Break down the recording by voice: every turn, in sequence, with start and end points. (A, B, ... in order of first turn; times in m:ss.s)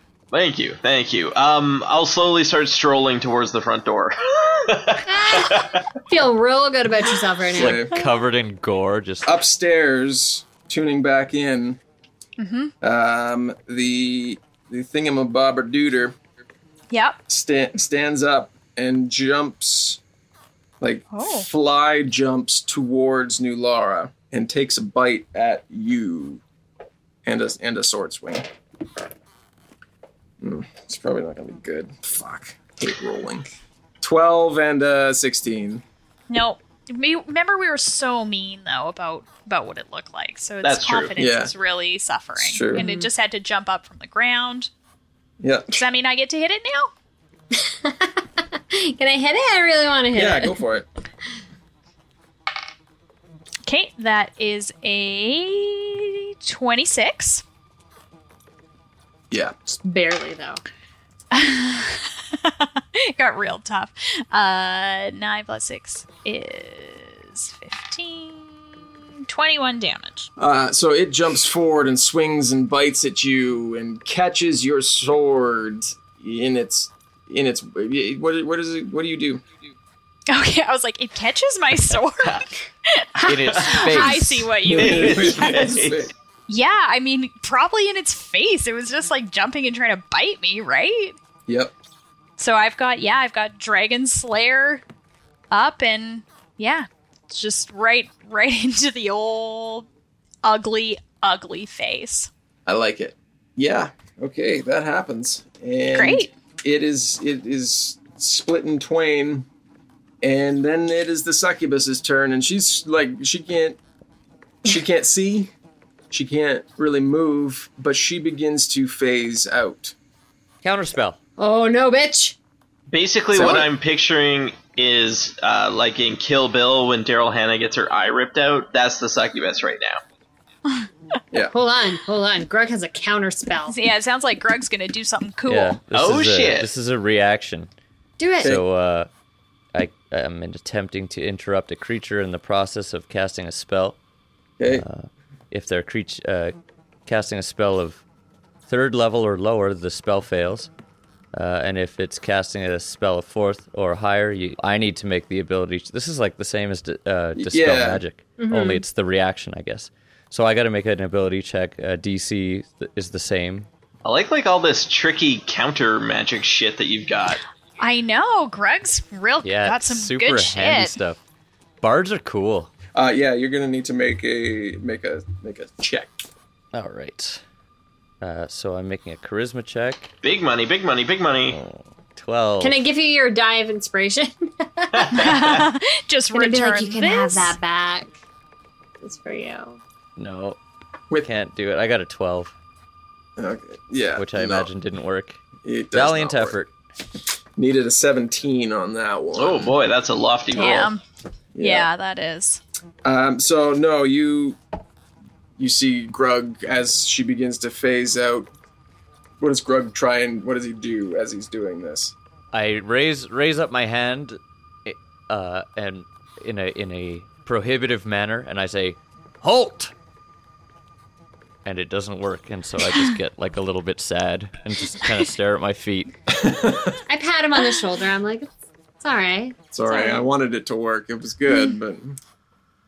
0:00.3-0:05.7 A
0:05.1-0:07.8 B
0:07.6-0:08.0 C
0:07.6-0:09.3 D
0:09.2-0:11.8 C
0:12.4-0:12.7 E
0:12.8-0:16.1 C
0:16.9-0:17.2 E
0:17.3-0:20.0 C
0:20.8-0:26.4 C
0:21.1-0:21.5 E
0:27.2-0:28.5 C
0:30.4-0:33.5 C
0:34.0-0:35.8 C
0:36.3-0:44.7 E
0:40.6-0:41.1 A
0:41.2-0:41.5 C
0:42.4-0:42.8 C
0:42.7-0:43.1 B
0:45.4-0:45.7 C
0:45.7-0:46.9 E
0:47.5-0:50.6 B
0:50.1-0:50.8 C
0:53.6-0:57.4 E
0:59.3-0:59.8 C
0:59.8-1:00.6 B
1:01.3-1:08.7 E
1:09.2-1:10.3 E
1:10.4-1:19.4 C
1:20.3-1:25.7 E
1:23.2-1:24.4 D
1:23.4-1:24.0 A
1:24.7-1:26.1 C
1:24.7-1:26.1 A
1:26.5-1:31.2 E
1:31.5-1:31.7 C
1:32.4-1:34.8 E
1:35.5-1:39.9 E
1:40.4-1:42.3 E
1:42.6-1:49.5 C
1:45.9-1:46.3 E
1:50.2-1:53.8 C
1:54.6-1:55.5 C
1:56.1-1:59.9 C
2:00.6-2:01.2 D
2:01.4-2:02.4 B
2:02.9-2:10.0 A
2:03.3-2:03.7 C
2:11.5-2:13.8 B
2:13.7-2:15.8 E
2:15.4-2:17.7 D
2:15.9-2:16.7 A
2:18.2-2:18.6 B
2:18.4-2:19.1 D
2:19.7-2:24.0 D
2:24.6-2:24.8 C
2:24.7-2:26.5 D
2:27.0-2:28.0 D
2:28.7-2:30.7 D
2:31.3-2:43.7 D
2:37.4-2:38.0 C
2:38.4-2:38.8 B
2:44.0-2:47.4 A
2:47.8-2:51.0 E
2:49.4-2:51.2 D
2:51.8-2:52.7 D
2:52.9-2:56.2 C
2:56.7-2:57.4 D
2:58.2-3:00.1 D
3:00.2-3:01.6 A
3:01.5-3:02.8 D
3:02.6-3:05.2 B
3:05.0-3:05.6 A
3:05.1-3:07.6 E
3:06.3-3:08.1 B
3:09.0-3:09.8 B
3:10.2-3:10.6 D
3:11.2-3:12.5 D
3:13.4-3:14.7 C
3:14.2-3:15.4 D
3:15.6-3:16.6 C
3:15.9-3:16.7 D
3:17.6-3:19.7 C
3:19.3-3:20.9 A
3:20.5-3:21.0 E
3:21.5-3:21.9 C
3:21.6-3:22.6 E
3:23.0-3:24.6 C
3:25.6-3:28.5 C
3:29.4-3:32.1 C
3:32.5-3:39.9 D
3:41.6-3:46.1 D
3:46.4-3:46.9 C
3:47.1-3:48.5 B
3:49.0-3:50.3 B
3:49.7-3:52.2 C